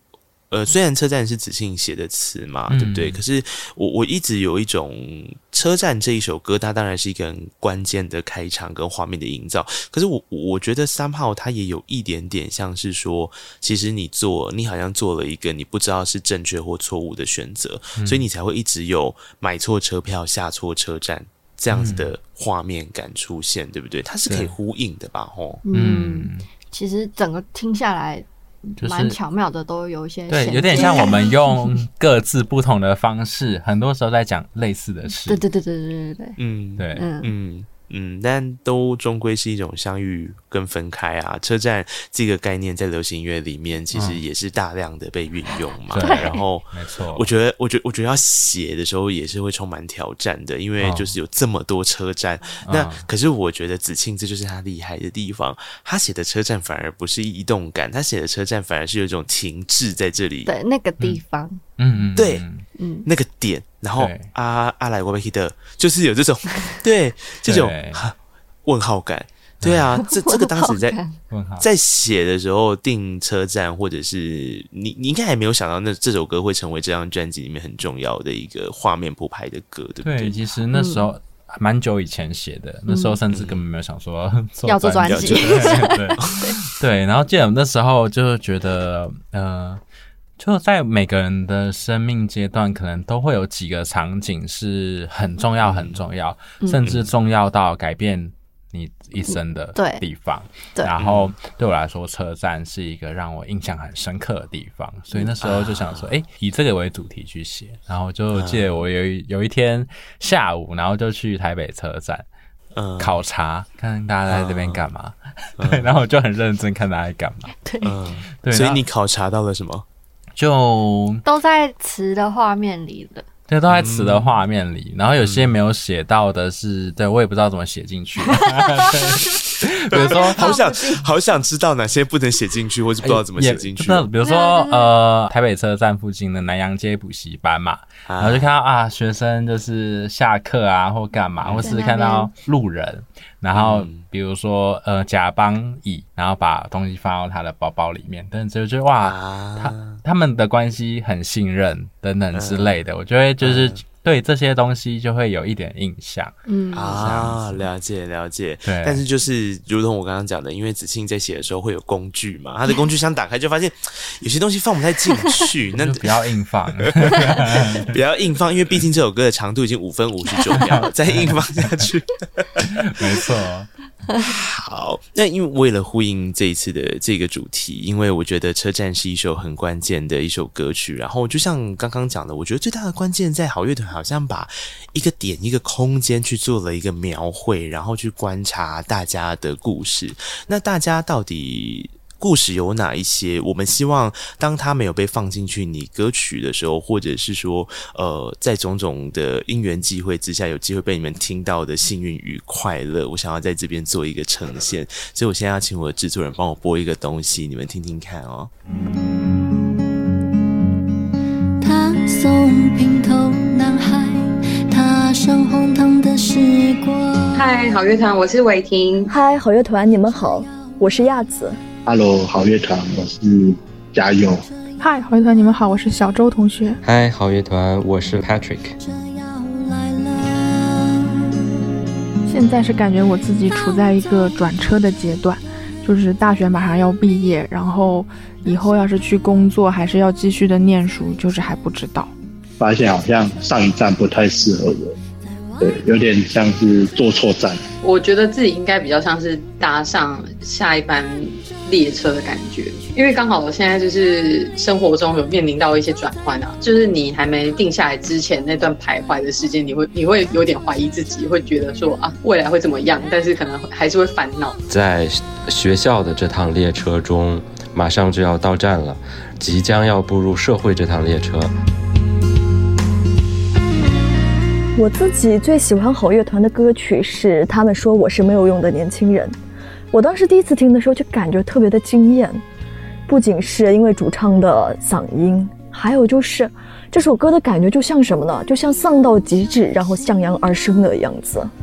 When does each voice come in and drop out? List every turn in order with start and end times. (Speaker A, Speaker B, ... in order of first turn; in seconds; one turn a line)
Speaker A: 0.5-25.6
Speaker B: 2.7-3.2
Speaker B: 18.0-18.2
Speaker B: 21.7-22.1
Speaker B: 24.2-24.5
Speaker C: 25.6-31.8
Speaker B: 25.7-26.4
Speaker B: 28.8-29.2
Speaker B: 30.3-35.4
Speaker C: 35.2-36.4
Speaker A: 36.4-60.5
Speaker B: 36.8-37.0
Speaker C: 37.0-37.3
Speaker B: 43.9-44.2
Speaker B: 45.9-47.3
Speaker C: 46.0-46.4
Speaker B: 50.8-51.1
Speaker B: 52.7-53.1
Speaker C: 60.5-61.6
Speaker B: 61.8-62.6
Speaker A: 62.1-62.4
Speaker C: 62.8-63.1
Speaker A: 63.0-71.0
Speaker B: 64.0-64.3
Speaker B: 67.4-68.0
Speaker B: 69.6-69.8
Speaker C: 70.1-71.2
Speaker B: 71.3-71.7
Speaker A: 71.6-80.3
Speaker B: 80.0-89.8
Speaker C: 80.7-81.0
Speaker C: 82.9-83.2
Speaker A: 83.3-83.6
Speaker C: 84.6-86.6
Speaker A: 85.0-86.4
Speaker B: 90.4-112.2
Speaker A: 95.6-96.0
Speaker A: 96.8-97.1
Speaker C: 99.2-100.0
Speaker A: 101.0-101.3
Speaker A: 105.2-106.1
Speaker A: 108.3-108.8
Speaker A: 112.7-113.2
Speaker B: 113.0-117.5
Speaker A: 114.3-114.8
Speaker A: 115.6-115.9
Speaker C: 117.6-117.9
Speaker A: 117.8-119.8
Speaker B: 118.4-118.8
Speaker B: 120.4-121.2
Speaker C: 121.2-123.2
Speaker B: 123.5-130.4
Speaker A: 123.7-124.4
Speaker A: 125.2-125.5
Speaker C: 128.8-129.3
Speaker A: 129.9-134.1
Speaker C: 129.9-131.0
Speaker B: 133.0-156.3
Speaker C: 134.2-134.9
Speaker A: 138.1-138.5
Speaker A: 141.4-141.7
Speaker C: 141.6-142.3
Speaker A: 143.5-144.0
Speaker A: 149.0-150.0
Speaker A: 152.3-152.8
Speaker A: 153.4-153.8
Speaker C: 156.5-157.0
Speaker A: 156.7-166.1
Speaker B: 156.9-157.6
Speaker B: 158.6-159.0
Speaker B: 165.8-168.0
Speaker A: 166.8-172.8
Speaker B: 170.6-171.8
Speaker B: 172.6-173.7
Speaker A: 174.2-208.5
Speaker D: 211.6-217.4
Speaker E: 217.3-219.1
Speaker F: 219.1-221.6
Speaker G: 221.8-224.5
Speaker H: 224.8-226.8
Speaker I: 226.8-228.7
Speaker D: 228.8-231.3
Speaker H: 232.3-242.1
Speaker G: 242.6-244.9
Speaker G: 245.6-247.7
Speaker E: 247.8-264.6
Speaker I: 264.7-271.5
Speaker F: 274.8-279.4
Speaker F: 279.9-282.4
Speaker F: 283.1-291.5